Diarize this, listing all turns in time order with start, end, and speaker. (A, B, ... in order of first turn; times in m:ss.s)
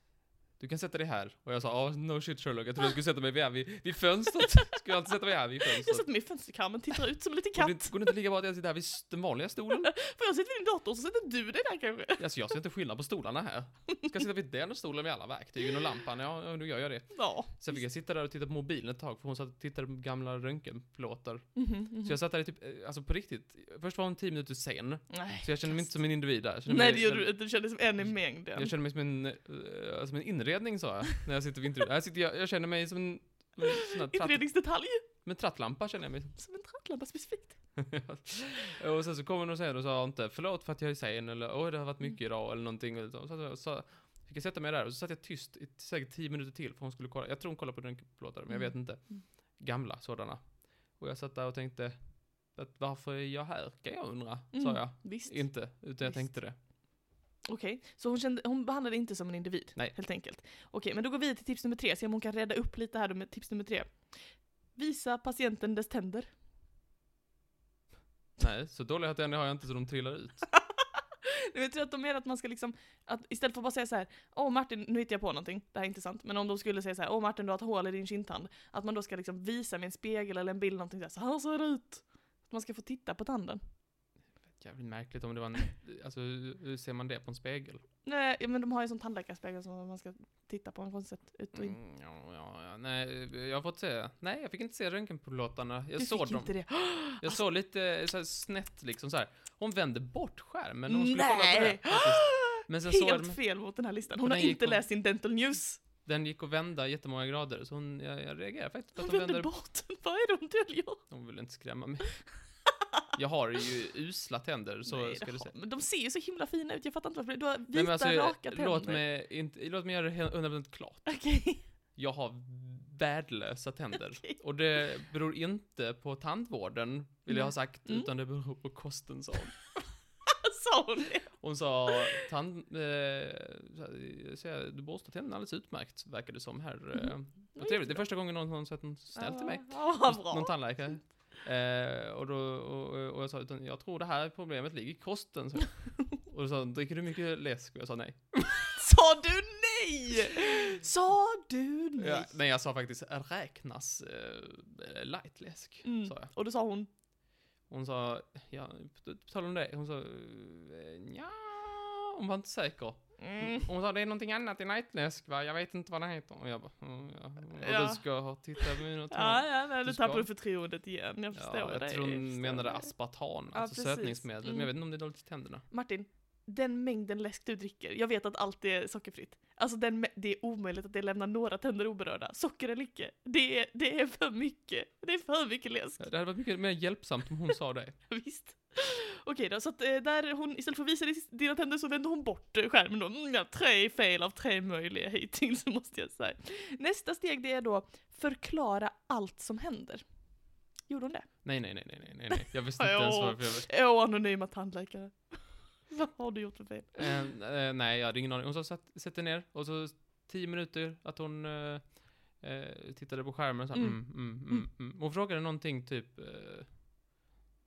0:00.6-0:06.0 A
0:05.7-0:07.9 B
0:07.6-0:09.9 A
0:09.8-0:12.2 B
0:12.2-0:27.3 A
0:17.1-0:17.6 B
0:21.6-0:22.2 B
0:25.1-0:25.9 B
0:26.6-0:28.7 B
0:28.0-0:34.5 A
0:33.6-0:35.0 B
0:35.1-0:36.3 A
0:36.4-0:37.6 B
0:37.8-0:50.4 A
0:48.5-0:49.2 B
0:51.0-0:52.0 A
0:52.5-0:56.6 A
0:54.5-0:55.4 B
0:57.5-1:04.1 B
1:04.7-1:06.3 B
1:08.4-1:10.5 A
1:10.5-1:23.6 B
1:24.6-1:27.8 A
1:28.0-1:31.8 B
1:31.5-1:36.5 A
1:36.0-1:37.4 B
1:37.1-1:43.4 A
1:40.9-1:45.8 B
1:44.2-1:44.8 A
1:46.0-1:49.5 A
1:49.0-1:51.0 B
1:51.1-1:52.2 A
1:53.1-1:55.5 A
1:54.8-1:59.0 B
1:57.7-2:01.1 A
2:01.0-2:01.6 B
2:02.0-2:09.6 A
2:07.3-2:08.1 B
2:10.2-2:11.3 B
2:11.4-2:28.8 A
2:17.0-2:18.0 B
2:19.1-2:20.6 B
2:28.7-2:32.3 B
2:32.0-2:36.3 A
2:35.8-2:36.9 B
2:37.7-2:50.3 A
2:43.2-2:43.6 B
2:47.6-2:48.0 B
2:48.6-2:52.9 B
2:51.3-2:55.6 A
2:53.5-2:54.7 B
2:55.7-3:06.0 B
3:06.0-3:08.0 A
3:08.1-3:20.0 B
3:20.9-3:21.3 B
3:21.4-3:23.7 A
3:22.3-3:27.1 B
3:26.9-3:36.7 A
3:33.7-3:34.6 B